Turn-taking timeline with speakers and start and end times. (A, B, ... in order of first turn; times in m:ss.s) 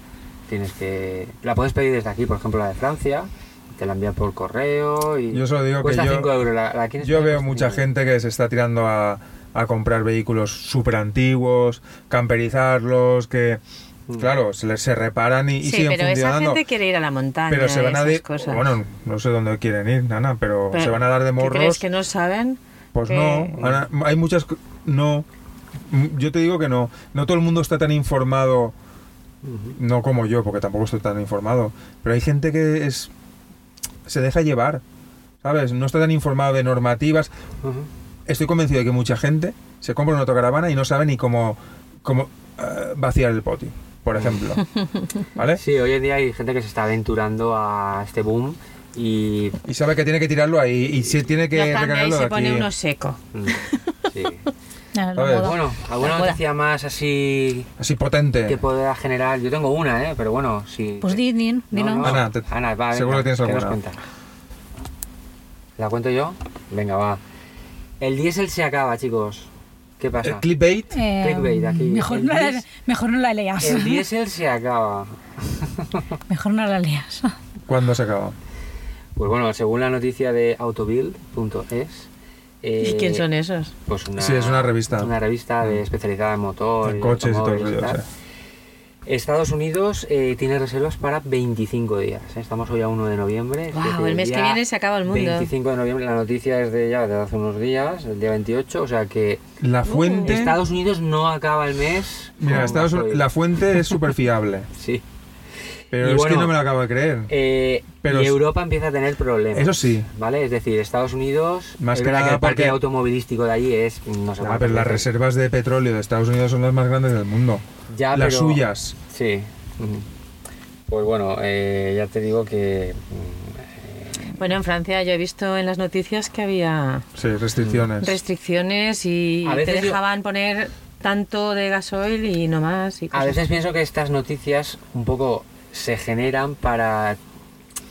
0:00.5-0:07.9 A
0:05.3-0:06.3 B
0:07.0-0:13.6 B
0:14.2-0:16.6 B
0:15.6-0:18.7 C
0:17.5-0:21.8 B
0:20.7-0:23.6 C
0:22.9-0:25.3 B
0:23.6-0:23.8 A
0:25.9-0:28.7 B
0:29.4-0:29.8 A
0:29.8-0:33.1 B
0:34.1-0:34.8 B
0:35.4-0:37.3 B
0:37.6-0:37.9 A
0:38.3-0:44.6 B
0:44.2-0:44.4 A
0:45.4-0:45.6 B
0:45.6-0:49.6 A
0:49.7-0:52.7 B
0:51.5-0:53.9 C
0:53.3-0:54.5 A
0:54.9-0:55.6 D
0:55.2-0:55.6 B
0:55.4-0:57.7 A
0:56.0-0:56.4 C
0:57.8-0:58.6 B
0:58.5-1:04.0 A
1:01.0-1:02.1 D
1:02.0-1:03.8 B
1:05.8-1:07.2 A
1:08.0-1:10.5 A
1:10.2-1:11.0 B
1:10.9-1:14.0 D
1:11.2-1:12.6 A
1:13.6-1:16.1 A
1:16.3-1:17.3 D
1:17.7-1:18.4 B
1:19.2-1:22.1 A
1:22.6-1:23.3 A
1:22.8-1:23.7 C
1:23.9-1:28.0 A
1:24.2-1:25.1 B
1:26.8-1:28.0 B
1:29.1-1:39.4 A
1:33.7-1:35.5 C
1:39.6-1:40.6 B
1:39.8-1:40.4 C
1:40.2-1:43.3 A
1:42.4-1:44.7 B
1:44.8-1:45.0 A
1:45.9-1:47.3 B
1:46.0-1:46.6 A
1:47.3-1:55.1 A
1:48.0-1:48.4 B
1:49.5-1:50.1 B
1:51.8-1:52.8 B
1:54.4-1:59.0 B
1:57.9-2:00.1 A
2:00.9-2:04.3 A
2:04.4-2:07.1 C
2:07.2-2:08.2 B
2:07.6-2:07.9 A
2:08.0-2:13.4 C
2:09.4-2:10.0 A
2:13.1-2:17.2 A